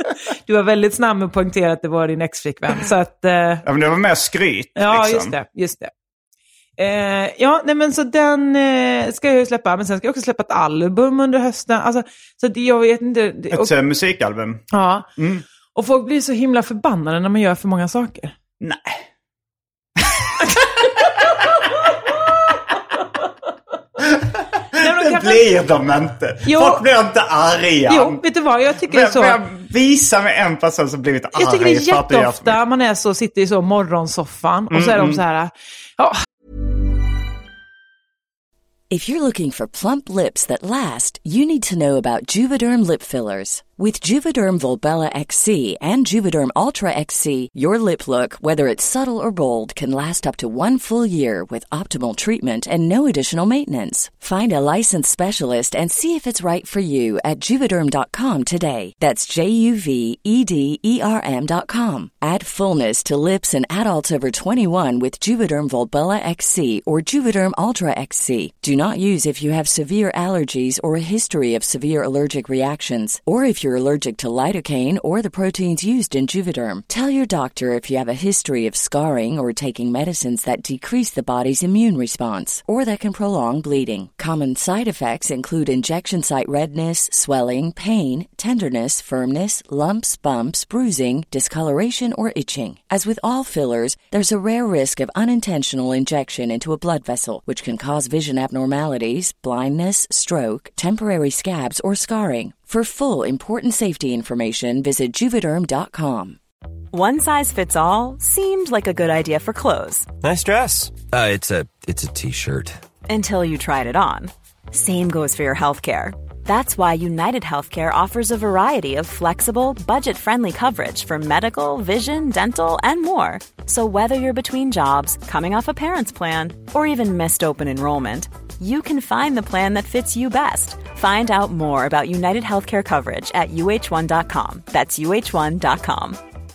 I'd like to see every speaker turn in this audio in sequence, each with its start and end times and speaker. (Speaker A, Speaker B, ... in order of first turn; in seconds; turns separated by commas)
Speaker A: 0.5-3.6, Speaker B: 3.6-5.3, Speaker A: 4.8-5.9, Speaker A: 6.8-13.7, Speaker B: 13.5-14.6, Speaker A: 14.7-15.1, Speaker B: 15.2-15.4, Speaker A: 15.7-18.3, Speaker B: 18.6-19.0, Speaker B: 20.0-20.6, Speaker B: 24.0-28.2, Speaker A: 24.7-25.4, Speaker A: 26.4-26.8, Speaker A: 27.9-29.4, Speaker B: 28.8-32.6, Speaker A: 31.3-36.2, Speaker B: 34.7-35.2, Speaker C: 38.9-106.4, Speaker D: 106.9-110.1, Speaker E: 110.2-112.8, Speaker D: 113.1-136.2